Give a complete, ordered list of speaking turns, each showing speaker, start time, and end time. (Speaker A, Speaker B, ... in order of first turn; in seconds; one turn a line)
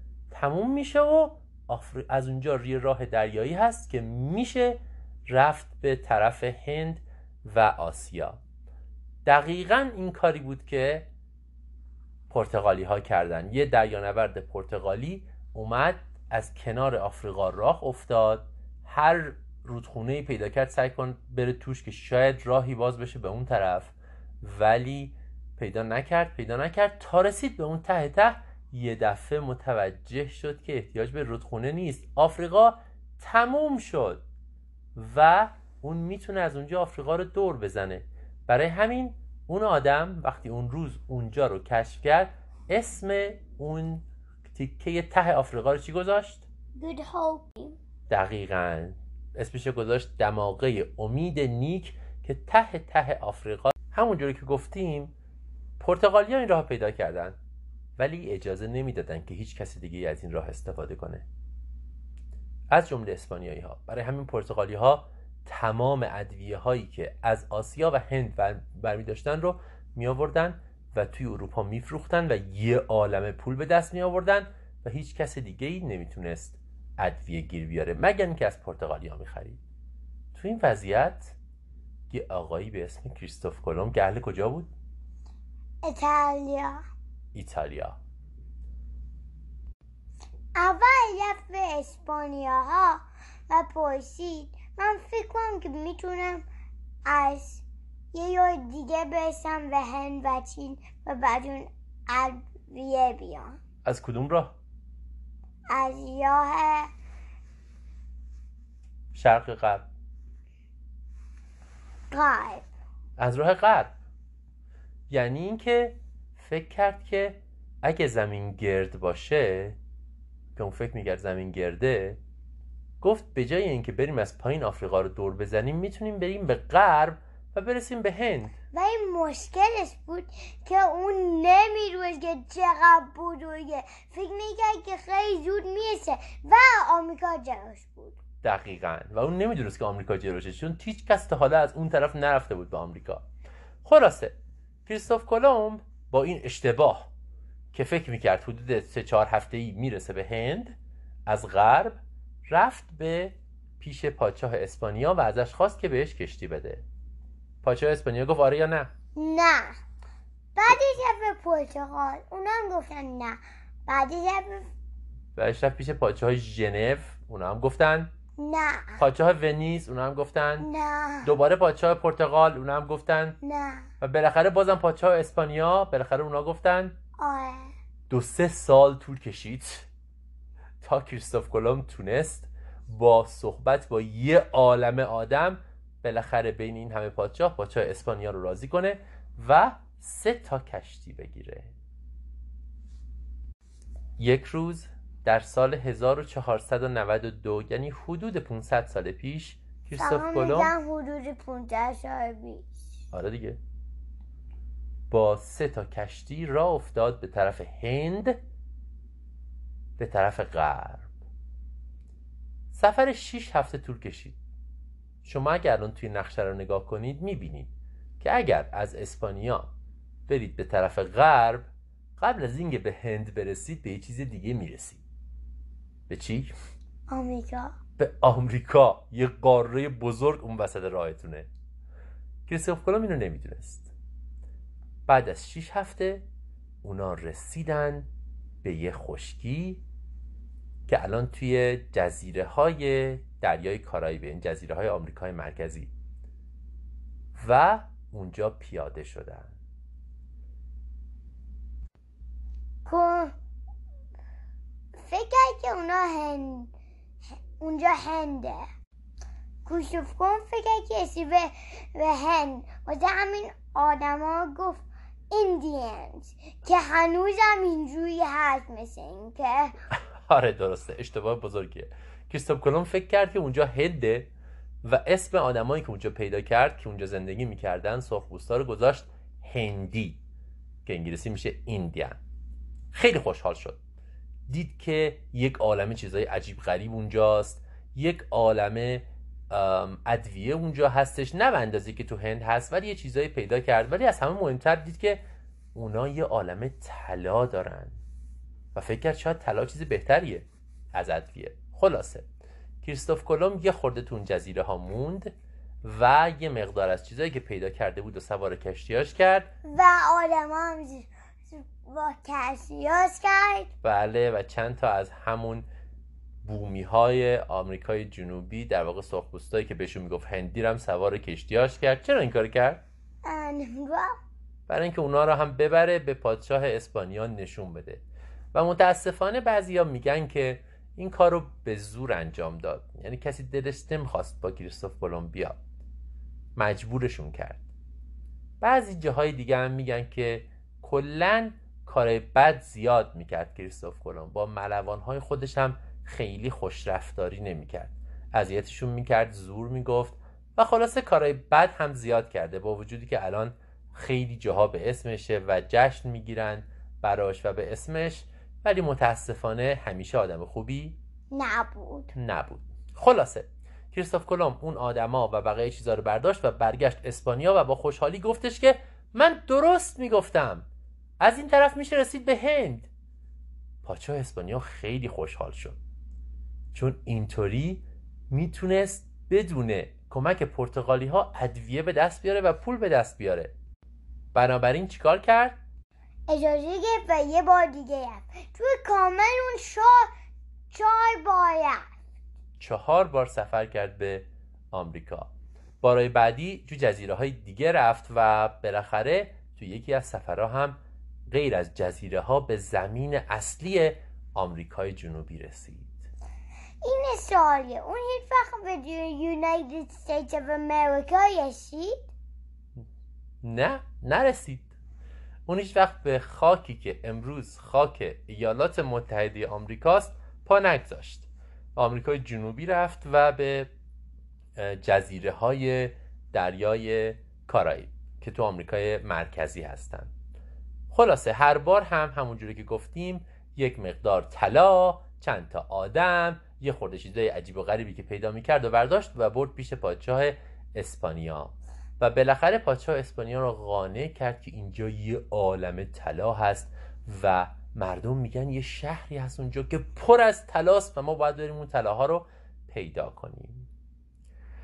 Speaker A: 0.3-8.4
Speaker A: 9.2-11.1
Speaker A: 12.3-34.2
Speaker A: 34.9-46.4
Speaker B: 46.8-47.8
Speaker A: 48.1-55.1
Speaker A: 55.8-57.4
Speaker A: 58.0-61.2
Speaker A: 62.7-79.6
Speaker A: 80.3-81.3
Speaker A: 82.1-84.7
Speaker B: 85.8-86.8
Speaker A: 87.3-88.0
Speaker B: 90.5-96.4
Speaker B: 97.0-103.6
Speaker A: 103.8-104.5
Speaker B: 105.7-106.9
Speaker A: 109.1-109.9
Speaker B: 112.1-112.7
Speaker A: 113.2-113.9
Speaker A: 115.1-119.8
Speaker A: 120.5-122.2
Speaker A: 123.0-128.5
Speaker B: 128.7-138.2
Speaker A: 138.4-143.2
Speaker A: 143.8-147.1
Speaker A: 147.7-156.8
Speaker A: 157.6-158.9
Speaker B: 159.1-159.8
Speaker B: 160.5-164.7
Speaker A: 165.3-168.1
Speaker B: 168.4-169.0
Speaker A: 169.0-170.7
Speaker B: 170.6-171.3
Speaker A: 171.2-173.4
Speaker B: 173.4-173.9
Speaker A: 174.0-176.9
Speaker B: 177.2-177.7
Speaker A: 178.1-179.9
Speaker A: 180.8-191.7
Speaker A: 194.2-200.7
Speaker B: 200.0-202.7
Speaker A: 203.1-203.6
Speaker A: 205.1-208.4
Speaker A: 210.0-211.1
Speaker A: 212.7-214.4
Speaker A: 215.2-219.7
Speaker A: 220.3-225.0
Speaker A: 226.1-226.5
Speaker B: 227.1-227.8
Speaker A: 228.0-231.5
Speaker A: 232.5-233.9
Speaker A: 235.1-236.3
Speaker A: 236.8-238.1
Speaker A: 238.6-239.8
Speaker A: 240.9-245.9
Speaker A: 247.4-249.5
Speaker B: 252.8-253.3
Speaker B: 254.9-256.7
Speaker B: 257.6-258.6
Speaker B: 259.6-269.7
Speaker A: 270.3-274.3
Speaker A: 274.8-280.2
Speaker A: 280.9-282.2
Speaker A: 282.9-283.8
Speaker A: 284.5-295.2
Speaker A: 295.7-298.0
Speaker A: 298.7-302.2
Speaker A: 302.8-309.5
Speaker B: 309.7-313.7
Speaker A: 313.8-315.7
Speaker A: 316.4-322.8
Speaker B: 323.2-324.2
Speaker A: 324.7-328.0
Speaker A: 328.5-335.6
Speaker A: 336.6-337.6
Speaker A: 338.6-361.0
Speaker B: 361.3-362.1
Speaker A: 362.1-370.6
Speaker A: 371.2-372.9
Speaker A: 373.8-375.8
Speaker A: 376.7-383.5
Speaker A: 384.3-385.6
Speaker B: 386.3-390.1
Speaker B: 390.7-391.8
Speaker A: 392.6-395.3
Speaker A: 395.8-400.8
Speaker A: 401.3-406.1
Speaker B: 406.8-412.0
Speaker A: 413.4-414.7
Speaker A: 415.5-423.7
Speaker A: 424.6-430.1
Speaker A: 430.9-453.7